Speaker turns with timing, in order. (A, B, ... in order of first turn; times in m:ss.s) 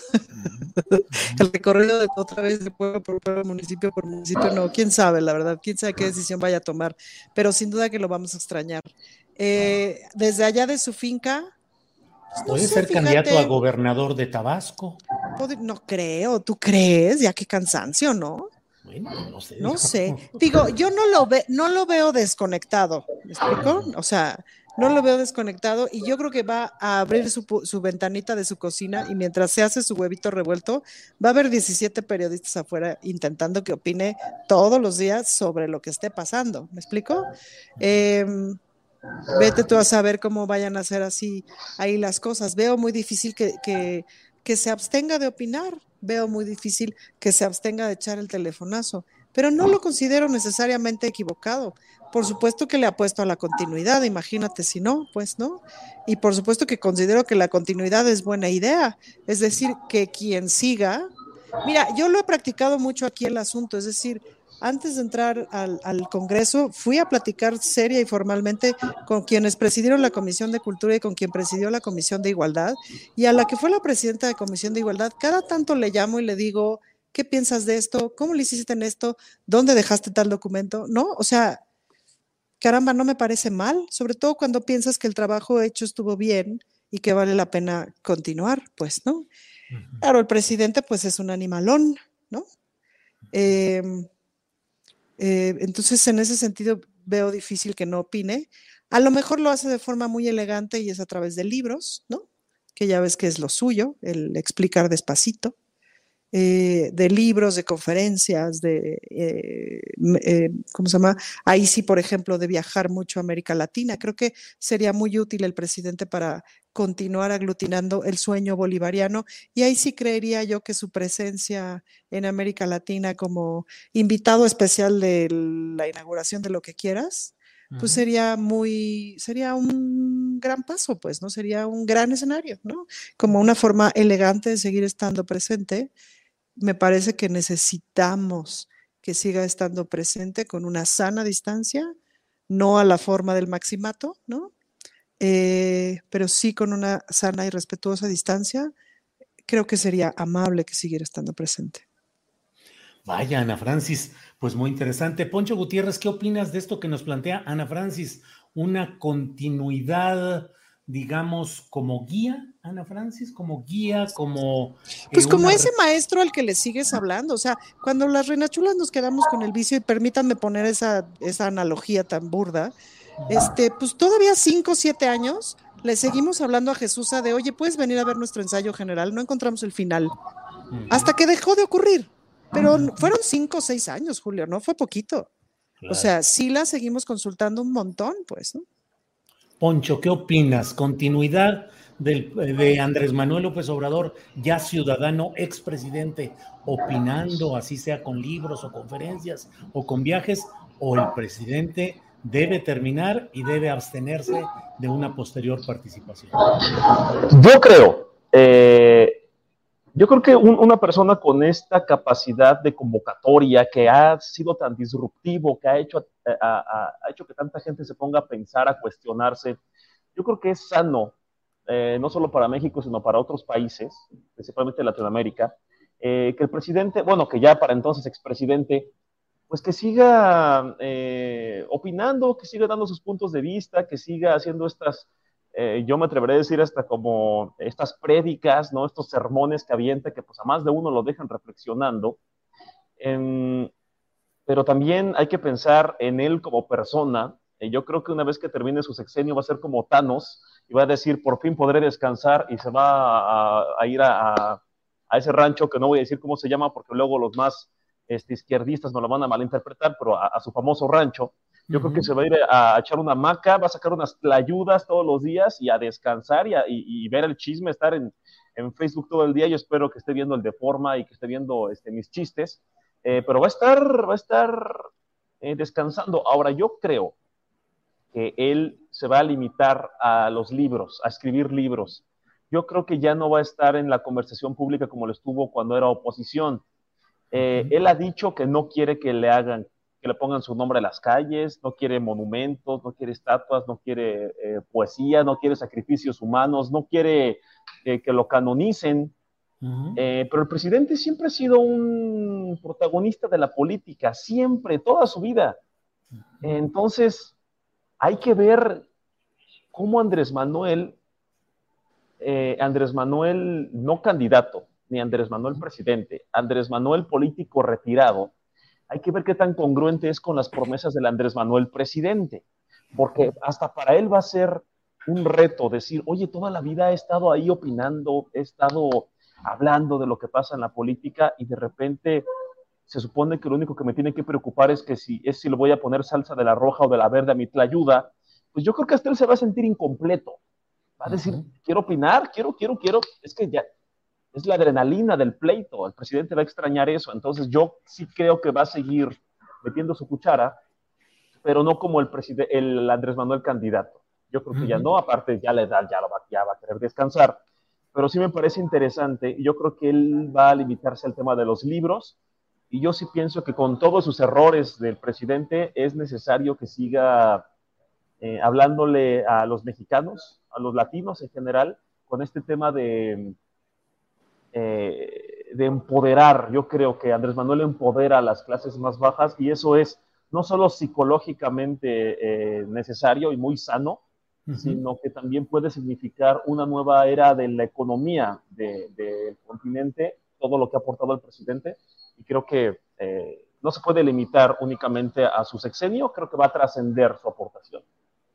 0:00.8-0:11.5 A
0:01.1-0:01.4 B
0:12.4-0:13.5 A
0:12.4-0:15.0 B
0:15.4-0:18.5 A
0:18.8-0:20.4 B
0:19.6-0:37.3 A
0:23.5-0:23.9 B
0:37.8-0:38.6 A
0:39.3-1:01.1 A
1:01.6-1:21.6 A
1:22.6-1:29.3 A
1:30.0-1:32.4 A
1:33.3-1:34.1 A
1:35.2-1:42.2 A
1:42.8-1:45.5 A
1:46.3-2:15.9 A
2:07.7-2:08.0 B
2:16.6-2:21.9 A
2:22.5-2:24.5 A
2:25.2-2:28.7 A
2:29.4-2:31.8 A
2:33.0-2:45.7 B
2:45.1-2:52.7 A
2:53.2-2:53.4 B
2:53.3-3:00.1 A
3:00.7-3:01.1 B
3:00.9-3:05.3 A
3:02.5-3:03.1 B
3:05.8-3:06.1 B
3:05.9-3:08.6 A
3:09.6-3:26.4 B
3:26.6-3:29.2 C
3:29.9-3:39.6 C
3:40.1-3:41.1 C
3:41.7-3:48.9 C
3:49.5-4:02.2 C
4:03.0-4:03.7 C
4:04.5-4:34.8 C
4:21.7-4:22.1 B
4:35.4-4:37.1 C
4:38.1-4:46.6 C
4:47.3-4:59.1 C
4:47.3-4:47.8 B
4:59.6-5:00.0 B
5:00.0-5:05.6 C
5:06.4-5:07.3 C
5:08.0-5:08.8 C
5:09.7-5:11.0 C
5:12.2-5:18.3 C
5:18.9-5:22.4 C
5:23.0-5:32.2 C
5:23.0-5:23.3 B
5:32.9-5:40.4 C
5:41.0-5:43.6 C
5:41.0-5:41.5 B
5:44.3-5:50.6 C
5:51.4-5:57.4 C
5:54.5-5:54.9 B
5:57.9-6:02.2 C
6:02.7-6:07.4 C
6:08.2-6:13.4 C
6:14.5-6:24.0 C
6:24.5-6:24.8 B
6:24.5-6:37.8 C